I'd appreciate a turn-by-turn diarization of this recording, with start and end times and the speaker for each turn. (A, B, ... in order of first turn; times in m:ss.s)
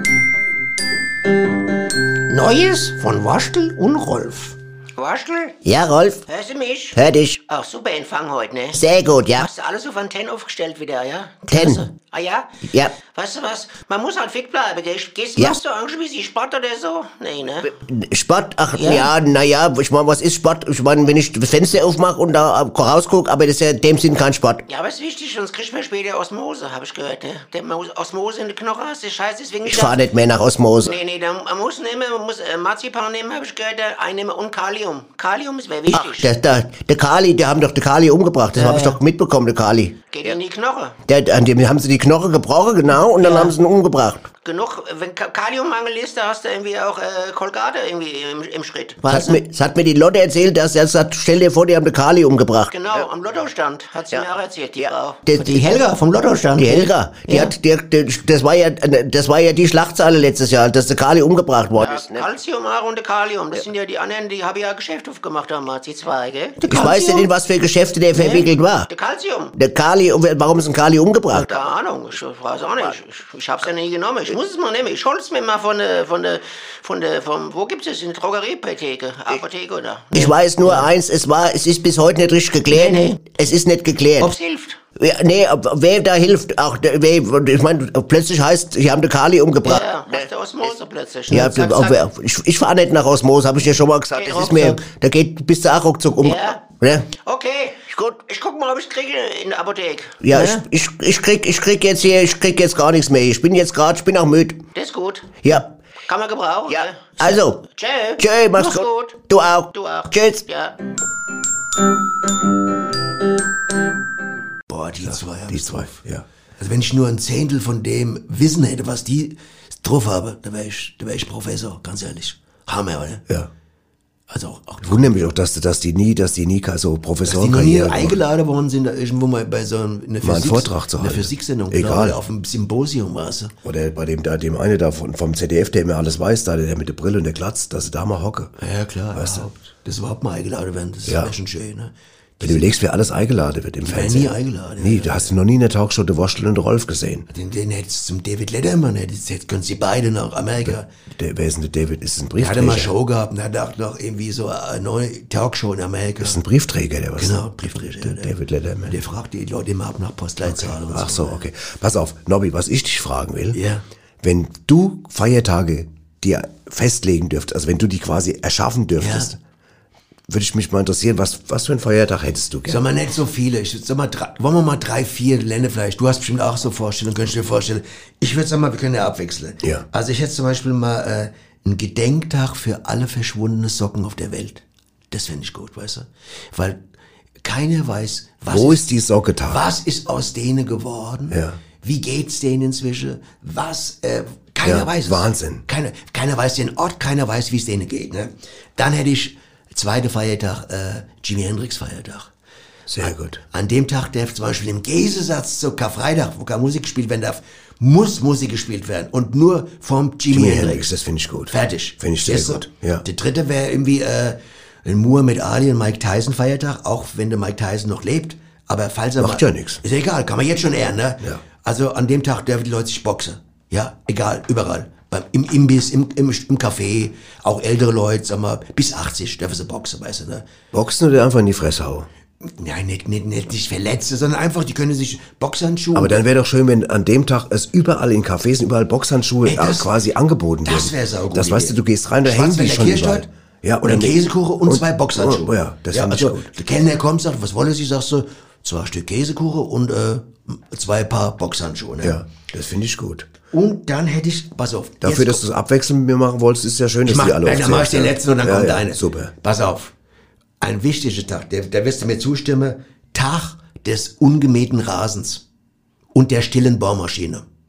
0:02.3-0:05.6 A
0:05.6-0:06.2 B
0:06.3-0:08.8 A
0:07.0-0:07.4 B
0:08.7-0:09.5 B
0:09.3-0:17.7 A
0:11.5-0:11.8 B
0:12.6-0:13.0 B
0:17.6-0:24.6 B
0:18.7-0:19.1 A
0:24.7-0:30.0 A
0:29.7-0:31.0 B
0:30.8-0:36.3 A
0:35.9-0:40.0 B
0:38.5-0:39.0 A
0:40.1-0:41.0 A
0:41.1-0:44.3 B
0:43.2-0:43.6 A
0:44.4-0:49.4 A
0:49.0-0:53.1 B
0:52.7-0:57.5 A
0:54.1-0:55.9 B
0:56.5-1:02.3 B
1:01.8-1:07.3 A
1:06.6-1:08.9 B
1:08.1-1:09.6 A
1:09.6-1:11.6 B
1:11.3-1:20.9 A
1:20.1-1:24.4 B
1:22.7-1:23.3 A
1:24.2-1:24.8 A
1:25.0-1:30.3 B
1:29.6-1:32.0 A
1:31.3-1:37.1 B
1:34.1-1:34.8 A
1:36.2-1:40.6 A
1:40.2-1:44.6 B
1:44.8-1:49.2 A
1:46.7-1:47.6 B
1:48.2-1:50.4 B
1:49.7-1:50.8 A
1:54.7-1:56.0 C
1:55.0-1:56.2 D
1:56.6-2:03.2 C
2:04.3-2:05.3 C
2:04.8-2:08.2 D
2:07.2-2:13.6 C
2:10.2-2:12.2 D
2:13.6-2:18.5 D
2:18.6-2:22.7 C
2:19.2-2:19.5 D
2:21.1-2:21.3 D
2:22.4-2:27.3 D
2:23.8-2:25.3 C
2:27.3-2:30.9 C
2:30.6-2:32.9 D
2:32.4-2:36.4 C
2:36.2-2:39.0 D
2:37.2-2:38.3 C
2:38.8-2:41.4 C
2:40.4-2:43.6 D
2:43.5-2:43.8 C
2:44.2-2:49.4 D
2:49.0-2:49.3 C
2:50.3-2:52.8 D
2:52.7-3:06.8 C
3:07.4-3:08.9 C
3:08.5-3:09.6 D
3:09.5-3:22.3 C
3:11.3-3:11.6 D
3:14.6-3:15.6 D
3:22.9-3:23.4 D
3:23.0-3:30.9 C
3:30.3-3:33.0 D
3:31.5-3:50.5 C
3:39.2-3:39.8 D
3:50.7-3:52.1 D
3:52.4-3:56.2 C
3:55.9-4:06.5 D
3:59.4-3:59.9 C
4:00.6-4:03.3 C
4:03.8-4:12.2 C
4:12.0-4:13.3 D
4:13.5-4:15.4 C
4:15.0-4:19.3 D
4:17.0-4:19.9 C
4:20.6-4:25.4 C
4:26.1-4:27.5 C